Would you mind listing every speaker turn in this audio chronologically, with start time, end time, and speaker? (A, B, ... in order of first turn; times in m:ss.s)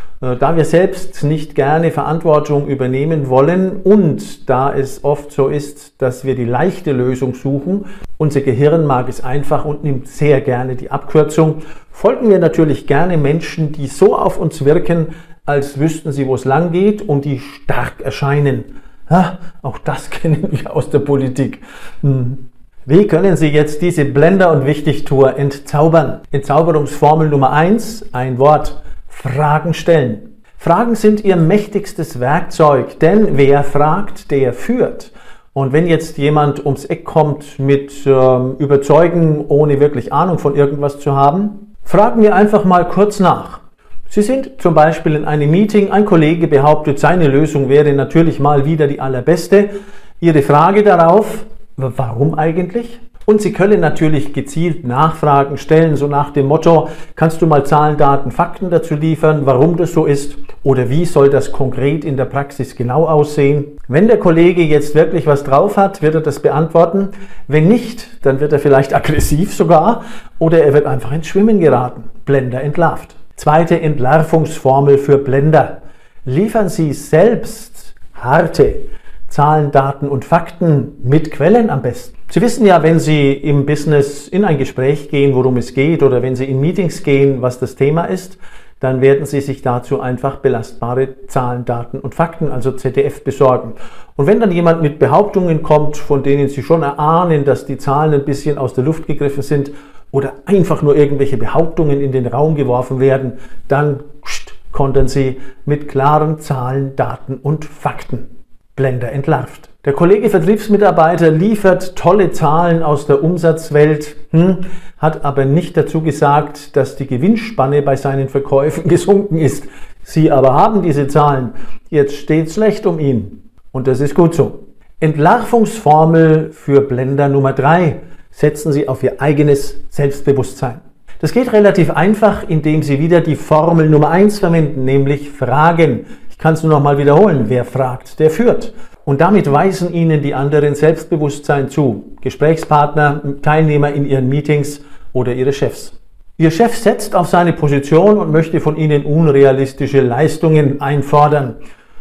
0:00.2-0:49.7 A
0:50.2-2:31.6 A